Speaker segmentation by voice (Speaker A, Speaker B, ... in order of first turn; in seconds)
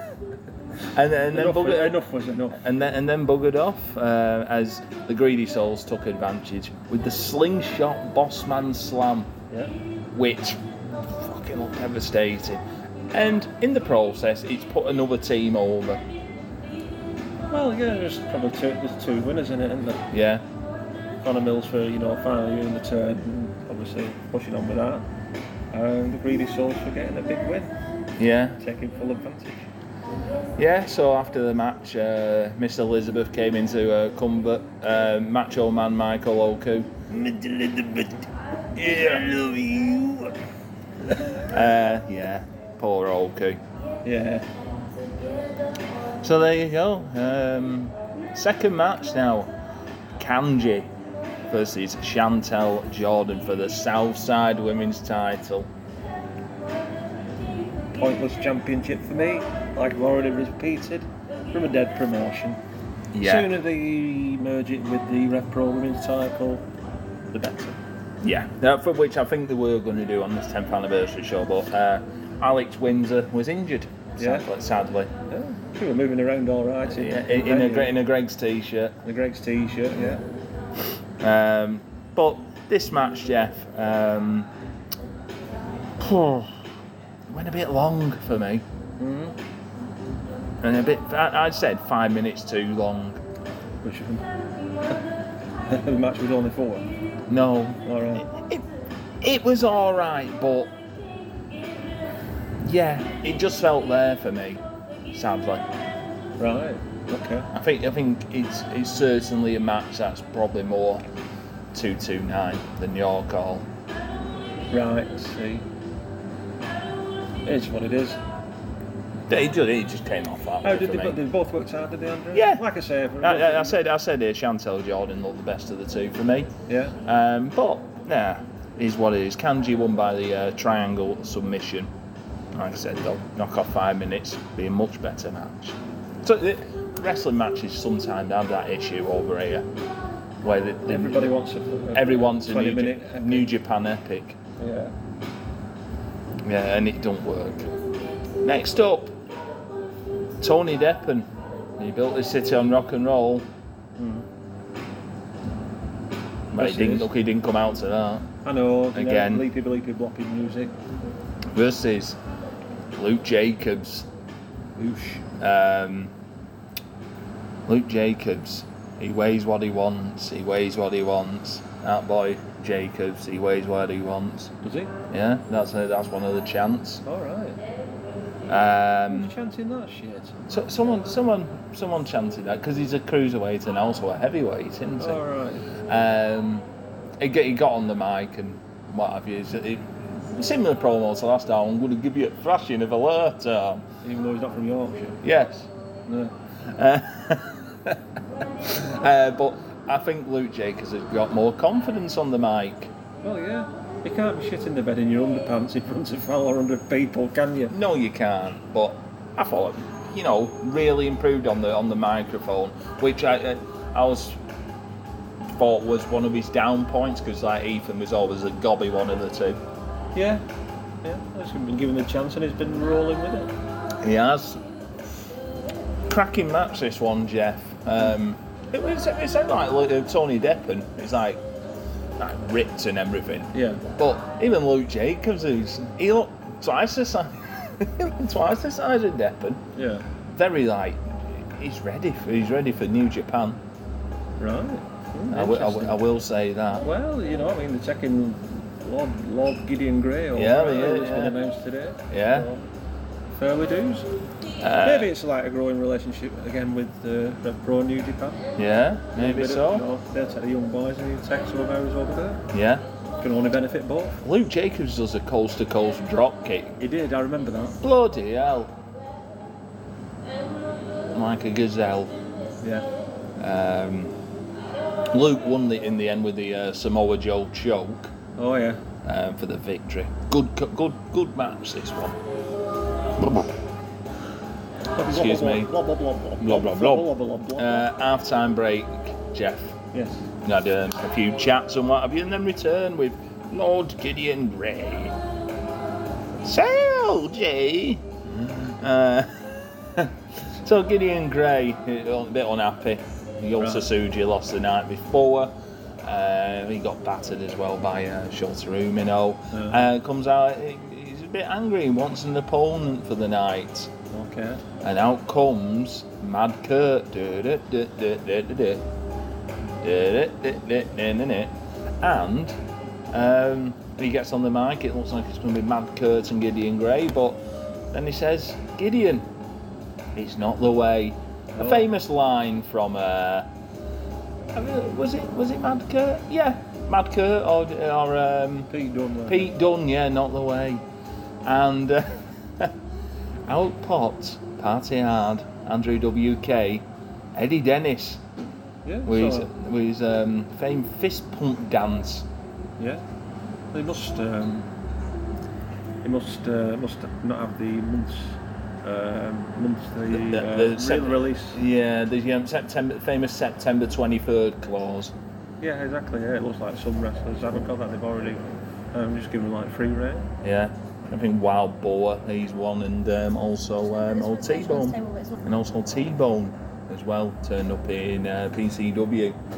Speaker A: 0.9-2.0, 2.5-9.3, 10.1-16.0, 20.1-20.4, 28.2-28.6, 30.6-37.0, 41.4-43.6, 46.2-49.5, 50.2-50.9, 51.5-55.7, 63.1-63.5, 68.2-75.1, 76.9-79.0, 81.2-84.5, 86.0-86.6, 87.3-88.6, 90.6-93.2, 97.3-98.7, 99.2-100.8, 102.6-105.7, 107.5-111.0, 111.7-113.7, 119.3-121.2, 122.3-122.6, 123.2-126.5, 127.0-131.9, 132.5-139.7, 140.4-141.3, 141.9-144.4, 146.4-147.7, 148.4-149.2, 150.4-153.5, 156.5-158.3, 158.9-159.4, 161.5-162.2, 162.9-164.1, 165.4-166.1, 167.7-174.5, 175.1-177.0, 178.5-179.3, 180.5-185.2, 185.8-186.7, 187.2-193.9, 195.2-195.7, 196.7-198.0, 198.6-202.9, 207.7-214.4, 215.6-219.6, 224.0-224.6, 226.1-231.4, 232.2-239.6, 240.3-243.6, 245.3-246.9, 250.3-251.4, 252.1-252.5, 254.6-255.1, 258.6-259.9, 262.5-262.9, 264.2-266.8, 267.8-268.8, 271.1-272.1, 273.4-274.1, 275.1-278.1, 279.0-282.2, 283.2-283.5, 285.0-285.7, 286.4-289.8, 290.4-295.2, 296.4-313.9, 314.8-318.8, 319.8-322.6, 323.1-327.4, 327.9-329.3, 330.2-333.5, 334.6-338.7, 339.3-340.8, 341.4-342.7, 343.5-348.2, 349.1-352.3, 360.1-365.1, 370.4-379.4
Speaker B: 1.3-2.6, 17.5-20.1, 21.2-25.1, 25.7-27.7, 28.6-29.7, 37.1-40.3, 44.0-44.5, 58.0-62.6, 63.2-66.7, 67.3-67.8, 74.2-74.5, 75.3-77.9, 79.0-80.2, 89.0-89.4, 93.8-94.3, 95.7-96.9, 97.8-98.2, 106.4-107.5, 114.7-115.7, 117.4-118.2, 120.6-123.8, 126.7-127.0, 140.9-143.5, 144.6-144.9, 154.0-154.3, 156.6-157.1, 158.4-160.8, 164.8-165.2, 174.6-174.9, 177.1-177.6, 179.1-180.7, 185.0-185.7, 194.0-195.2, 196.1-196.3, 203.2-207.7, 220.1-220.4, 221.0-223.5, 233.5-233.8, 239.8-240.1, 244.4-246.0, 246.8-252.7, 253.3-254.1, 254.8-258.4, 259.2-262.5, 263.2-264.2, 266.8-267.8, 272.6-272.9, 278.4-278.8, 285.0-287.9, 289.9-290.2, 303.6-303.9, 309.5-309.8, 314.1-314.6, 331.6-331.9, 338.7-339.5, 348.9-349.5, 352.8-353.0, 353.7-354.7, 356.0-361.6, 365.6-370.3